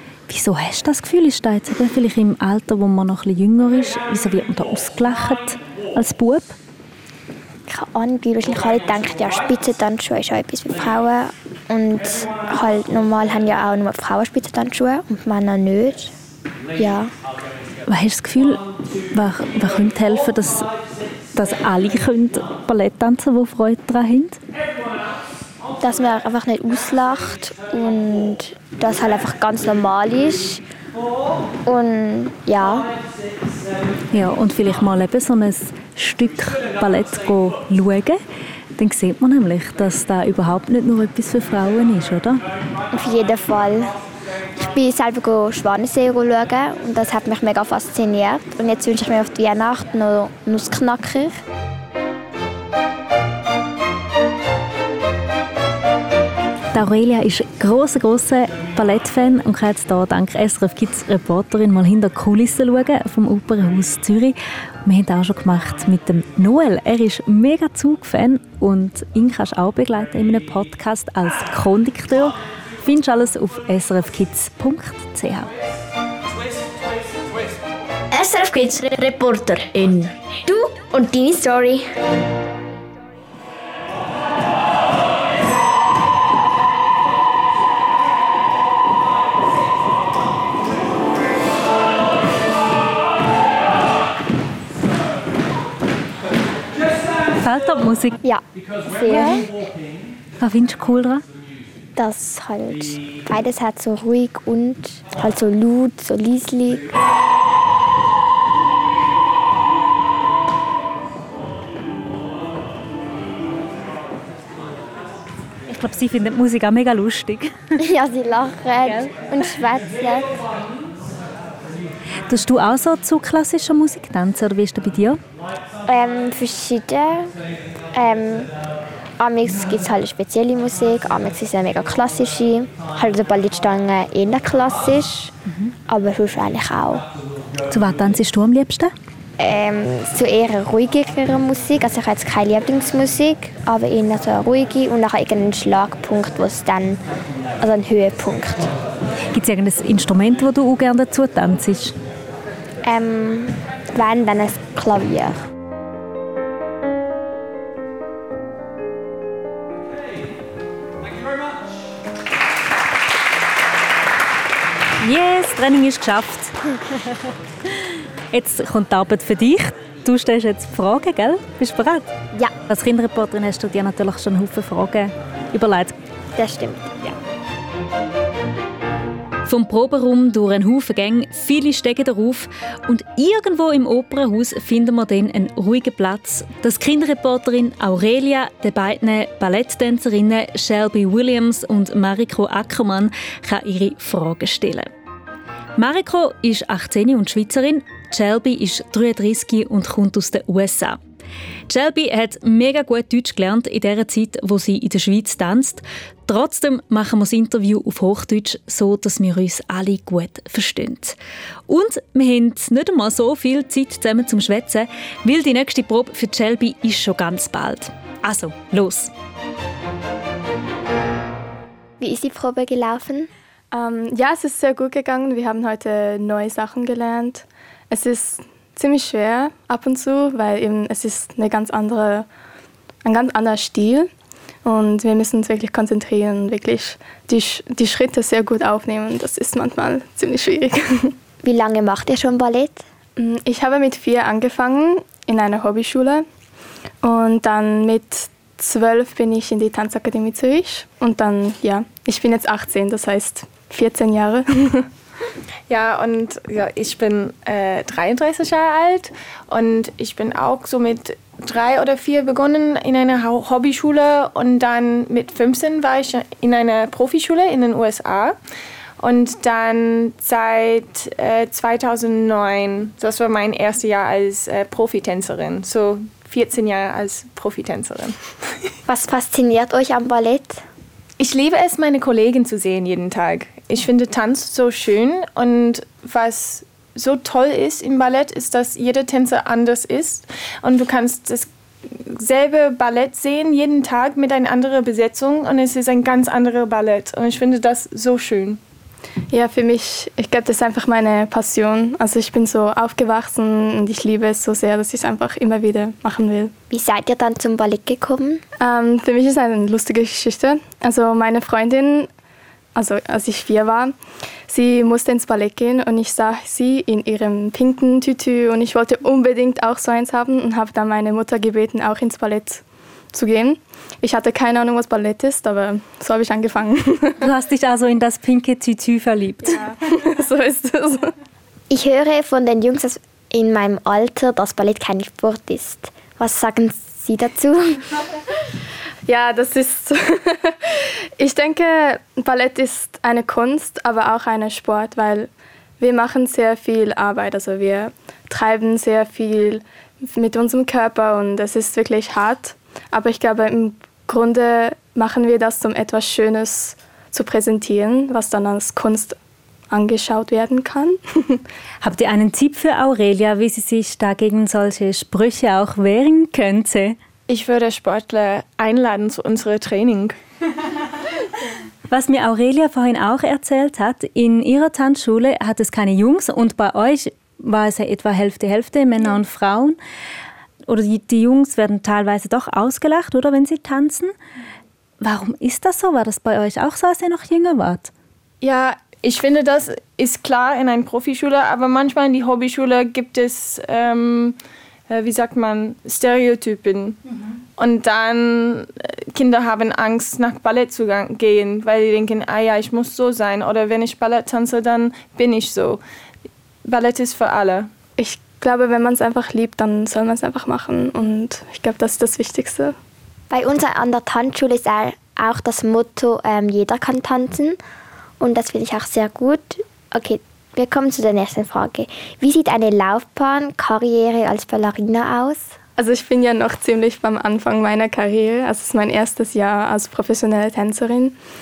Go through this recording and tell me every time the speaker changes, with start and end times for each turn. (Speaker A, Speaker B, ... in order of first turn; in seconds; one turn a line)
Speaker A: 0.3-6.5
Speaker B: 7.7-16.1
Speaker B: 16.8-17.1
Speaker A: 17.9-20.7
Speaker A: 21.3-24.4
Speaker B: 25.8-30.6
Speaker B: 31.6-32.9
Speaker A: 34.1-38.2
Speaker A: 38.8-42.4
Speaker B: 42.9-44.0
Speaker B: 44.5-51.4
Speaker A: 56.7-75.5
Speaker C: 78.1-81.9
Speaker A: 97.4-98.2
Speaker B: 98.2-99.5
Speaker A: 99.1-99.4
Speaker A: 100.4-101.2
Speaker B: 102.0-106.9
Speaker A: 115.7-117.8
Speaker B: 117.8-120.5
Speaker A: 122.3-125.2
Speaker B: 125.8-127.3
Speaker B: 127.9-128.5
Speaker B: 129.2-135.3
Speaker A: 135.5-135.7
Speaker B: 135.9-137.1
Speaker A: 137.7-138.9
Speaker B: 139.4-147.0
Speaker B: 147.6-148.7
Speaker A: 149.3-151.9
Speaker B: 152.8-155.5
Speaker A: 165.0-166.6
Speaker A: 167.7-172.1
Speaker A: 172.7-175.9
Speaker B: 176.3-177.0
Speaker A: 179.4-194.9
Speaker A: 195.8-201.0
Speaker A: 201.7-211.2
Speaker A: 211.7-219.1
Speaker B: 222.0-223.3
Speaker D: 223.7-232.2
Speaker D: 233.0-234.1
Speaker D: 234.6-241.1
Speaker B: 241.4-242.8
Speaker D: 243.2-246.2
Speaker D: 247.0-254.9
Speaker E: 255.7-268.4
Speaker E: 269.0-278.2
Speaker B: 278.9-280.6
Speaker E: 281.2-298.6
Speaker D: 299.3-306.5
Speaker B: 306.7-308.4
Speaker D: 308.6-312.1
Speaker D: 312.7-313.9
Speaker D: 314.5-327.2
Speaker A: 327.2-329.6
Speaker D: 329.4-331.1
Speaker B: 331.7-337.9
Speaker D: 339.1-359.1
Speaker D: 359.7-361.4
Speaker A: 361.8-366.9
Speaker E: 367.3-370.1
Speaker A: 371.9-379.8
Speaker A: 380.7-384.1
Speaker A: 385.0-387.9
Speaker E: 388.4-394.4
Speaker E: 394.9-397.0
Speaker E: 397.6-405.8
Speaker E: 406.6-407.7
Speaker D: 408.0-412.7
Speaker B: 413.3-417.6
Speaker B: 418.2-425.6
Speaker D: 425.8-431.1